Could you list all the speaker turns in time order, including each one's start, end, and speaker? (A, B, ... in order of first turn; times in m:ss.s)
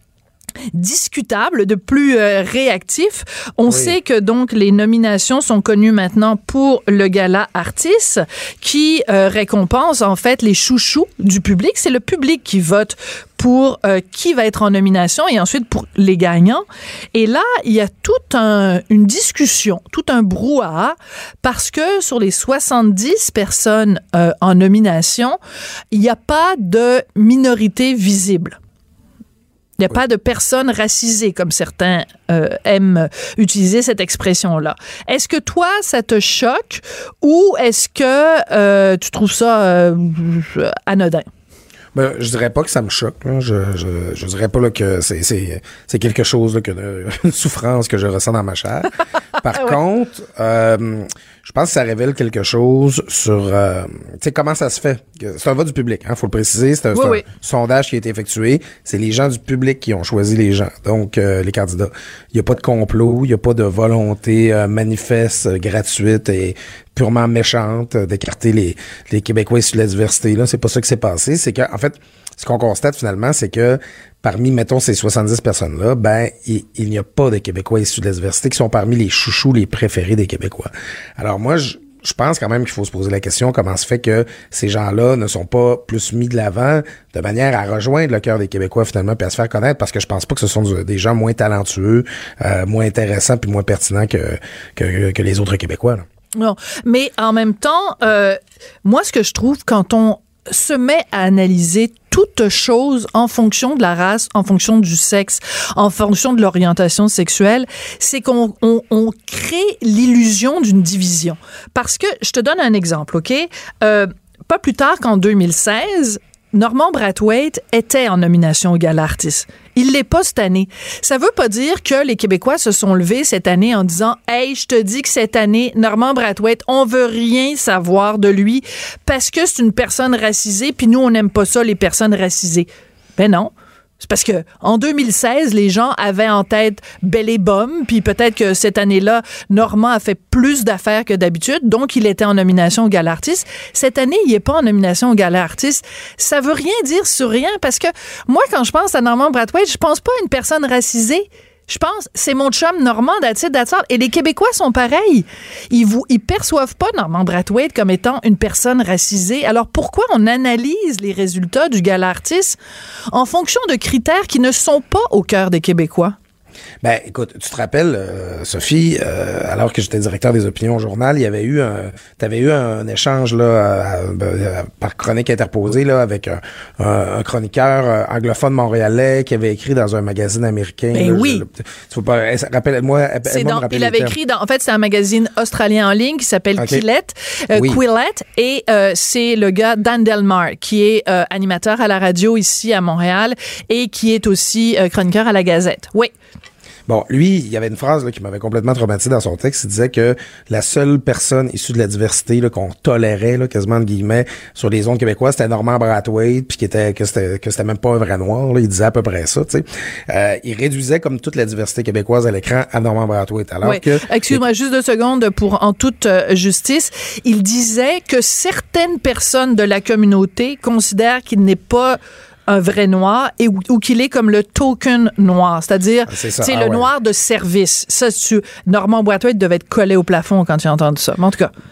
0:00.7-0:25.4 A
0:03.7-0:03.9 B
0:25.9-0:28.6 A
0:29.8-0:41.3 A
0:41.9-1:36.0 B
0:56.9-0:57.2 A
1:36.4-2:42.6 A
2:43.1-2:46.2 A
2:46.8-3:04.2 B
3:00.9-3:01.4 A
3:03.3-3:16.1 A
3:06.6-3:06.8 B
3:07.5-3:07.8 B
3:16.9-3:34.4 B
3:33.6-3:51.5 A
3:46.1-3:46.9 B